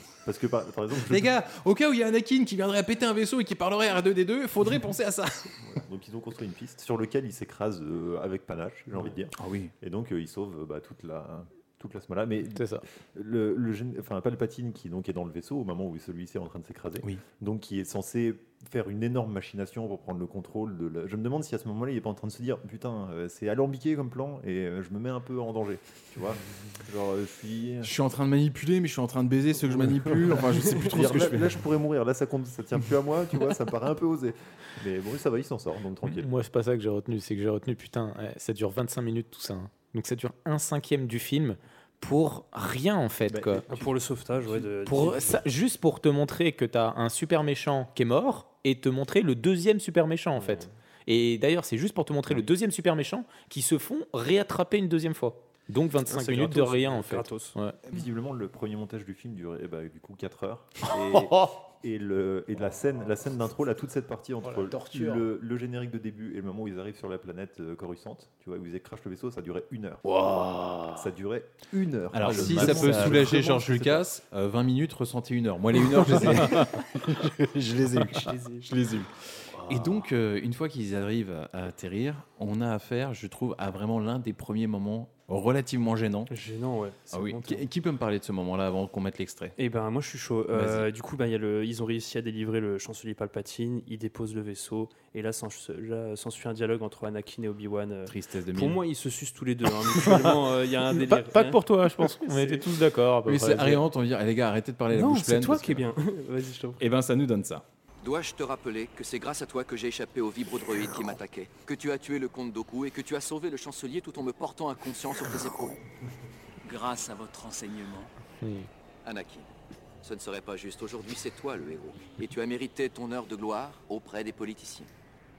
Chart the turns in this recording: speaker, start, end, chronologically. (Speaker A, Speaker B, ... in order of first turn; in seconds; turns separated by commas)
Speaker A: 0.2-1.3, Speaker B: 1.1-5.6, Speaker A: 5.7-27.9, Speaker B: 9.4-9.7, Speaker C: 12.5-12.8, Speaker B: 27.8-31.6, Speaker A: 30.8-36.3, Speaker C: 36.0-43.6, Speaker A: 43.3-45.0, Speaker D: 43.7-45.4, Speaker C: 44.9-57.8, Speaker D: 50.4-50.7, Speaker D: 56.1-57.6, Speaker A: 57.9-70.0, Speaker C: 60.9-61.5, Speaker C: 64.4-65.2, Speaker C: 70.0-71.1, Speaker A: 70.9-74.1, Speaker B: 72.1-86.3, Speaker C: 72.2-73.2, Speaker D: 78.2-78.7, Speaker C: 79.7-80.0, Speaker D: 86.3-87.7, Speaker B: 87.1-89.6, Speaker D: 89.6-102.6, Speaker B: 90.5-90.9, Speaker B: 98.1-98.8, Speaker C: 100.0-100.3, Speaker C: 100.9-103.8, Speaker B: 103.3-105.9, Speaker D: 104.9-106.8, Speaker B: 106.8-107.6, Speaker E: 108.0-115.8, Speaker E: 116.6-118.1, Speaker C: 118.4-118.7, Speaker E: 119.0-119.5, Speaker E: 120.0-124.9